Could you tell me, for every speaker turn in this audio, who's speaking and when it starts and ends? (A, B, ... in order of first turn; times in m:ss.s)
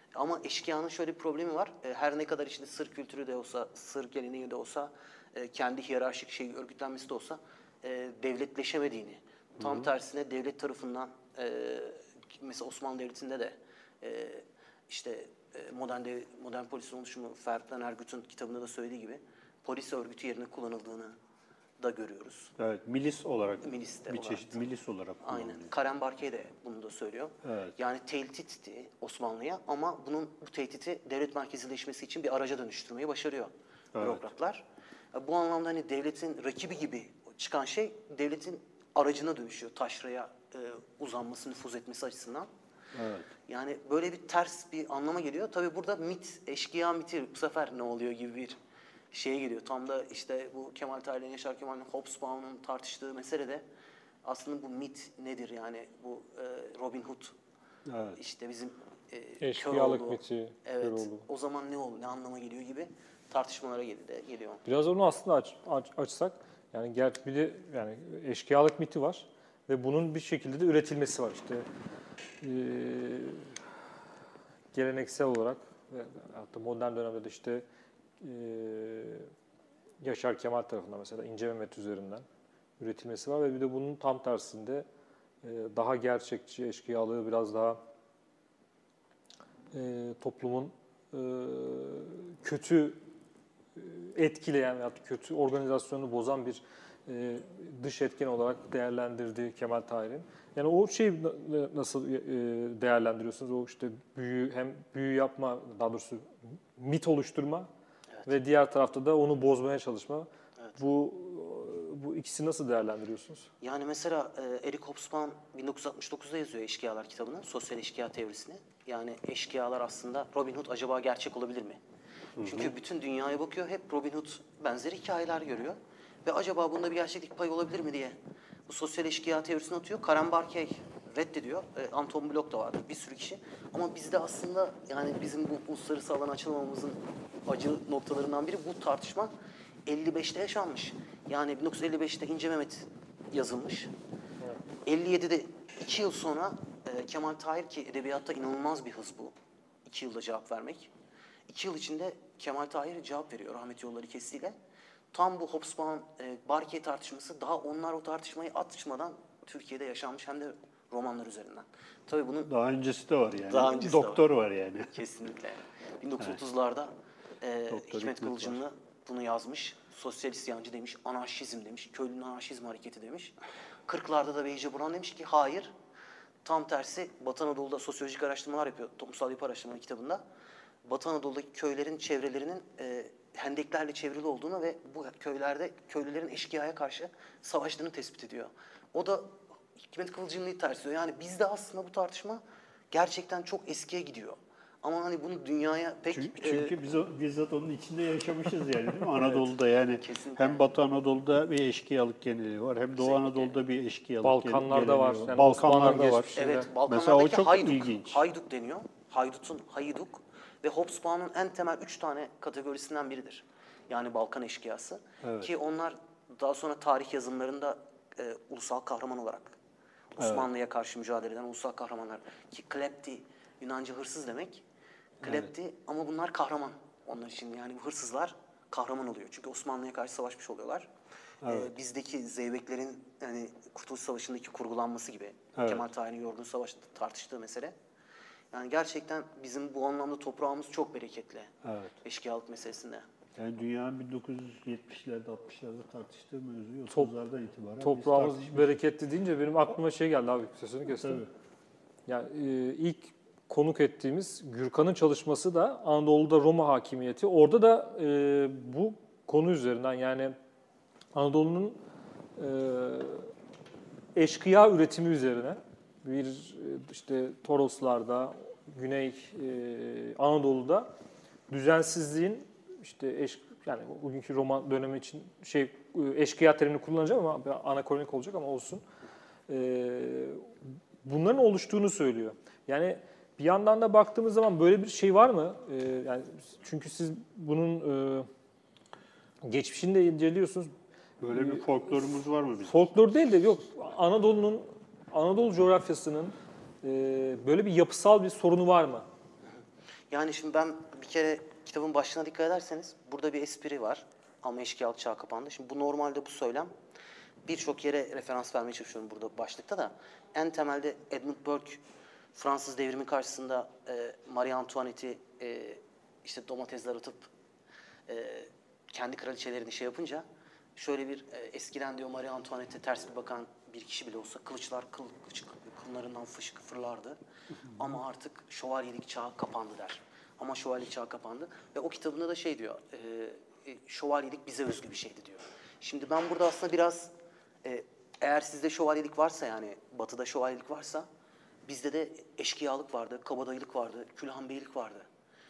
0:00.1-0:21.2 A
0:09.6-0:09.9 B
0:21.8-0:22.5 A
0:22.6-0:25.7 B
0:23.6-0:24.6 A
0:25.2-0:42.5 A
0:27.4-0:27.7 B
0:34.0-0:34.3 B
0:42.9-0:43.3 B
0:43.5-0:48.6 A
0:49.1-0:53.6 A
0:54.2-0:57.3 A
0:57.9-0:58.2 B
0:58.2-1:04.6 A
0:59.4-1:01.2 C
1:04.7-1:11.7 C
1:12.4-1:13.6 C
1:14.7-1:17.6 C
1:18.2-1:19.3 C
1:20.0-1:22.2 C
1:22.8-1:24.9 C
1:25.4-1:27.8 C
1:29.7-1:33.0 C
1:33.8-1:47.7 C
1:48.3-1:53.5 C
1:53.6-2:01.8 A
2:02.4-2:02.7 B
2:02.4-2:08.2 A
2:08.7-2:19.3 A
2:19.9-2:23.9 A
2:24.8-2:29.3 A
2:29.9-2:30.9 A
2:31.5-2:34.6 A
2:35.1-2:42.5 A
2:42.4-2:45.0 B
2:43.5-2:44.2 A
2:44.9-2:53.4 A
2:47.7-2:48.6 B
2:53.9-2:55.7 A
2:56.4-3:00.2 A
3:00.8-3:16.8 A
3:16.1-3:28.2 B
3:19.2-3:19.5 A
3:20.0-3:20.6 A
3:23.0-3:23.5 A
3:24.2-3:26.7 C
3:26.4-3:39.6 A
3:35.2-3:35.5 B
3:40.2-3:44.6 A
3:40.2-3:40.5 B
3:45.2-3:45.5 B
3:45.2-3:50.9 A
3:51.4-3:51.7 B
3:51.5-3:57.7 A
3:55.6-3:55.9 B
3:58.5-4:03.1 A
4:01.6-4:02.0 B
4:03.4-4:08.8 B
4:07.8-4:11.2 C
4:10.9-4:11.3 B
4:12.1-4:20.4 C
4:21.1-4:21.8 C
4:22.4-4:23.3 C
4:24.2-4:30.9 C
4:31.5-4:38.8 C
4:39.5-4:48.3 C
4:49.4-4:50.7 C
4:51.2-4:52.8 B
4:51.3-4:51.6 C
4:52.7-4:59.1 C
5:00.1-5:06.7 A
5:07.5-5:11.8 A
5:12.4-5:17.3 A
5:18.1-5:20.2 A
5:20.8-5:27.2 A
5:27.8-5:37.1 A
5:37.6-5:41.1 A
5:41.7-5:45.1 A